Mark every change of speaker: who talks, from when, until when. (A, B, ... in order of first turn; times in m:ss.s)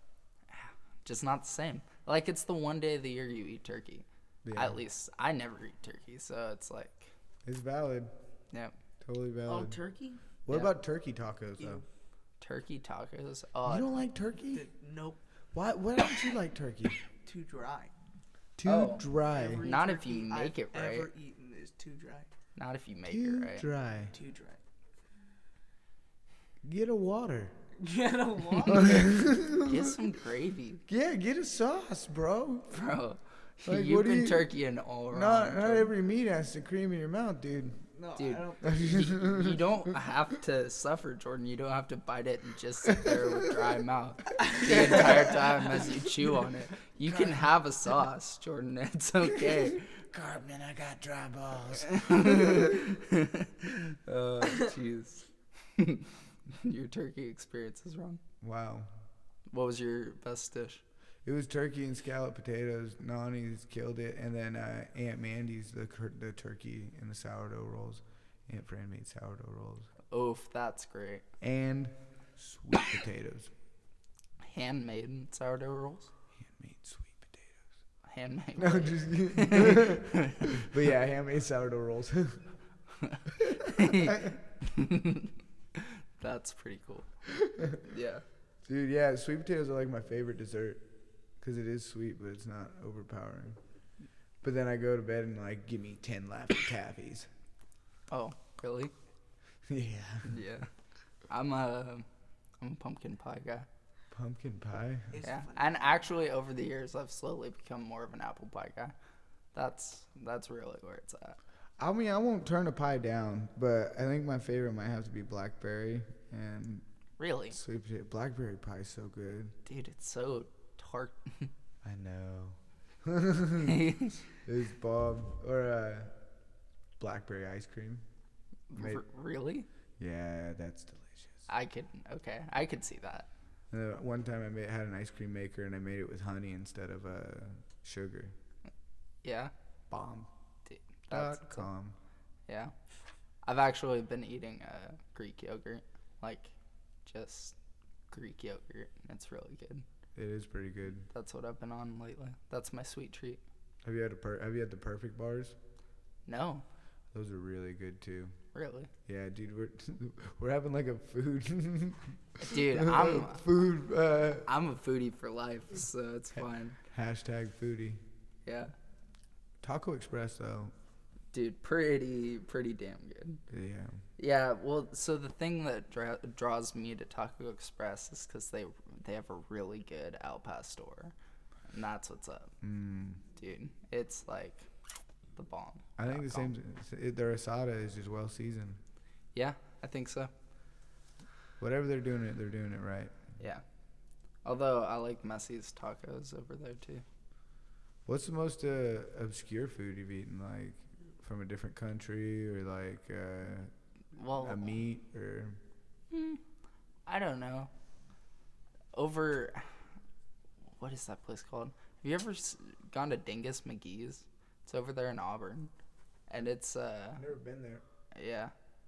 0:00.5-0:07.1 A
0:04.4-0:04.8 B
0:07.4-0:08.1 B
0:09.0-0:09.8 B
0:09.4-0:10.2 C
0:10.4-0:11.8 B
0:11.6-0:11.8 C
0:12.4-0:13.9 A
0:13.6-0:14.6 B
0:14.5-0:15.2 C
0:15.5-0:17.0 B
0:17.2-0:17.9 C
0:18.6-0:19.6 B
0:18.6-0:21.1 A
0:19.2-0:22.3 C
0:22.6-0:23.7 A
0:23.0-0:24.1 B
0:24.1-0:24.6 C
0:26.6-0:27.5 B
0:27.8-0:29.2 C
0:28.6-0:30.0 B
0:29.5-0:30.8 A
0:30.9-0:32.8 B
0:32.7-0:35.9 A
0:33.6-0:34.5 B
0:35.1-0:37.8 B
0:37.9-0:39.1 C
0:38.2-0:49.9 A
0:38.6-0:39.9 B
0:44.5-0:45.4 C
0:47.1-0:47.4 B
0:49.4-0:52.8 B
0:51.8-0:58.2 A
0:58.4-0:59.0 B
0:59.5-1:00.8 A
1:01.2-1:09.9 B
1:10.1-1:11.2 A
1:11.4-1:13.5 B
1:14.4-1:16.1 A
1:16.4-1:17.6 B
1:18.0-1:20.7 A
1:18.6-1:22.4 B
1:23.0-1:27.1 A
1:23.4-1:24.3 B
1:27.4-1:27.8 B
1:27.8-1:28.2 A
1:28.6-1:33.6 B
1:34.4-1:37.3 B
1:38.1-1:38.9 A
1:39.7-1:40.4 B
1:40.2-1:40.7 A
1:41.3-1:42.1 A
1:42.6-1:43.7 A
1:44.1-1:45.2 B
1:45.1-1:46.1 C
1:45.2-1:48.9 A
1:49.5-1:51.4 A
1:51.8-1:56.8 B
1:57.2-1:57.6 A
1:57.5-1:59.6 B
1:59.6-2:01.5 A
2:01.8-2:06.2 B
2:03.6-2:04.2 A
2:07.0-2:08.0 B
2:08.7-2:09.7 A
2:08.7-2:09.0 B
2:10.0-2:11.5 B
2:11.5-2:13.3 A
2:13.7-2:18.4 B
2:19.2-2:19.5 A
2:19.9-2:20.3 B
2:20.6-2:21.7 A
2:21.1-2:22.0 B
2:22.5-2:22.7 A
2:23.4-2:26.5 A
2:27.0-2:27.5 A
2:28.1-2:29.8 A
2:30.1-2:31.1 B
2:31.1-2:33.4 A
2:33.8-2:35.6 B
2:36.2-2:36.6 A
2:37.1-2:38.4 B
2:38.5-2:38.9 A
2:39.0-2:44.5 B
2:42.4-2:43.4 A
2:44.4-2:46.8 A
2:46.8-2:48.0 B
2:48.4-2:48.7 A
2:49.6-2:50.7 B
2:51.3-2:53.4 A
2:53.5-2:54.0 B
2:54.2-3:01.1 A
3:01.7-3:02.5 A
3:02.6-3:03.2 B
3:03.3-3:04.6 A
3:05.4-3:06.5 A
3:06.0-3:08.8 B
3:09.3-3:10.3 A
3:11.6-3:13.1 B
3:13.4-3:13.6 A
3:14.4-3:17.0 A
3:18.0-3:23.7 B
3:24.1-3:24.7 A
3:24.3-3:25.6 B
3:26.1-3:26.4 A
3:27.0-3:27.7 A
3:28.9-3:29.7 A
3:30.8-3:35.7 A
3:36.3-3:37.2 A
3:37.2-3:37.8 B
3:38.1-3:38.5 A